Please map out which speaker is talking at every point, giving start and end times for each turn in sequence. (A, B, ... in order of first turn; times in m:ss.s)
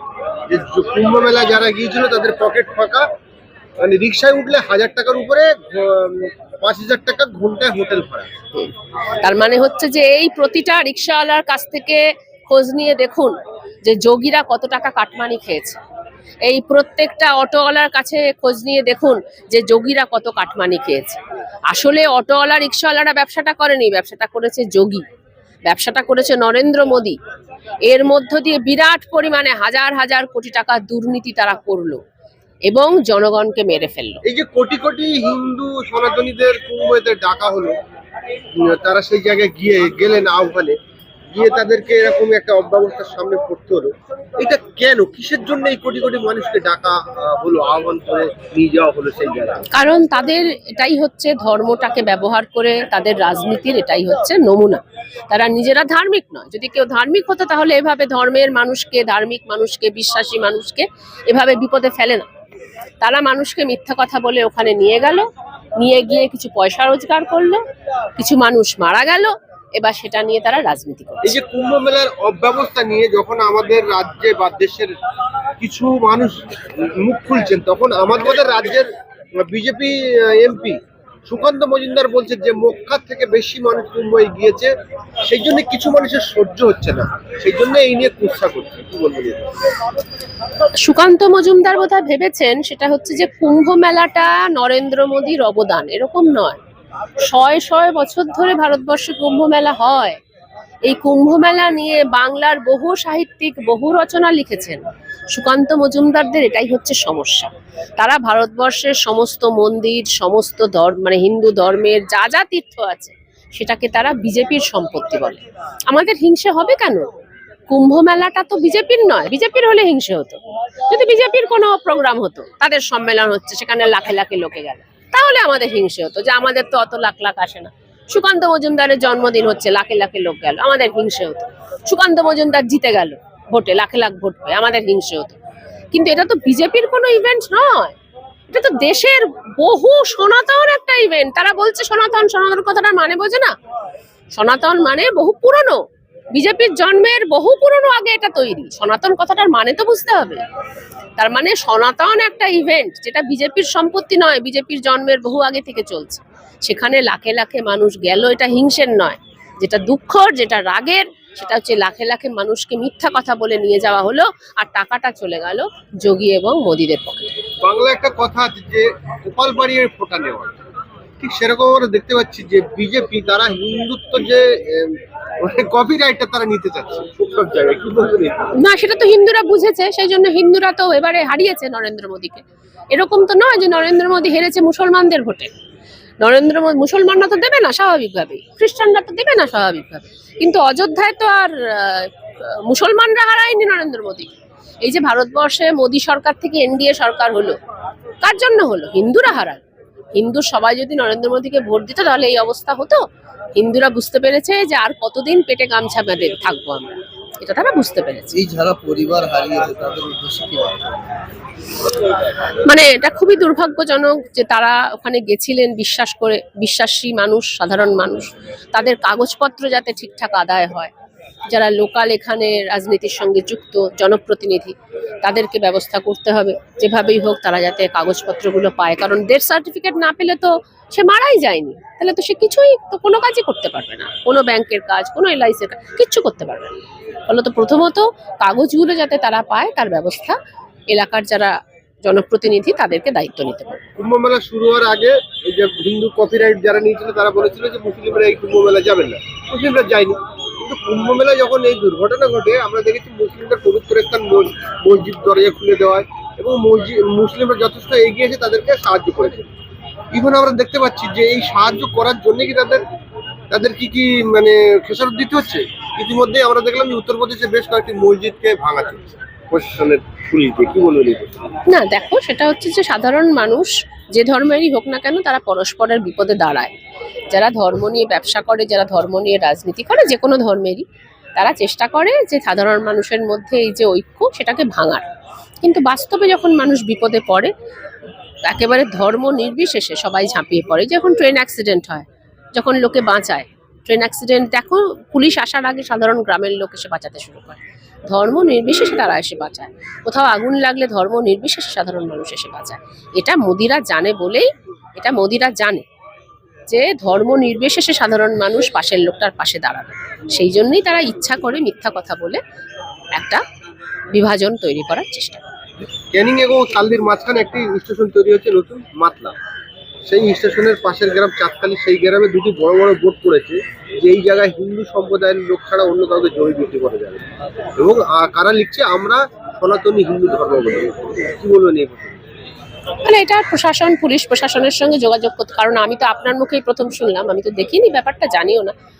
0:00.5-0:03.1 A
0:03.8-0:08.3 A
0:08.6-0:15.8 B
0:16.4-0:25.1 B
0:25.7-0:27.2 B
0:27.8-0:32.0 B
0:32.7-0:34.2 B
0:34.2-0:37.7 A
0:38.6-0:40.8 A
0:41.3-0:49.6 A
0:49.7-1:02.3 B
1:03.0-1:07.6 B
1:08.2-1:11.4 B
1:11.3-1:15.0 A
1:15.6-1:24.7 A
1:25.2-1:29.5 A
1:30.8-1:36.6 B
1:37.2-1:40.2 B
1:40.8-1:44.8 B
1:45.3-1:57.1 B
1:57.7-2:15.4 B
2:15.9-2:18.0 B
2:18.5-2:23.5 B
2:24.3-2:25.8 B
2:26.3-2:30.4 B
2:31.2-2:47.4 B
2:47.6-2:50.6 A
2:51.2-2:58.5 A
2:58.6-3:05.5 B
3:06.2-3:14.3 B
3:14.8-3:17.6 B
3:18.2-3:19.6 B
3:20.2-3:23.0 B
3:23.6-3:28.4 B
3:28.4-3:31.2 C
3:32.6-3:40.9 B
3:41.5-4:00.4 B
4:00.9-4:03.8 B
4:04.0-4:19.5 A
4:20.1-4:22.8 A
4:23.5-4:31.4 A
4:31.7-4:36.7 B
4:37.3-4:40.8 B
4:41.4-4:45.1 B
4:45.6-4:47.5 B
4:48.5-5:05.8 B
5:06.7-5:12.4 B
5:13.2-5:13.4 B
5:14.1-5:15.4 B
5:16.1-5:19.4 A
5:20.1-5:27.2 A
5:27.8-5:32.2 A
5:33.0-5:38.7 B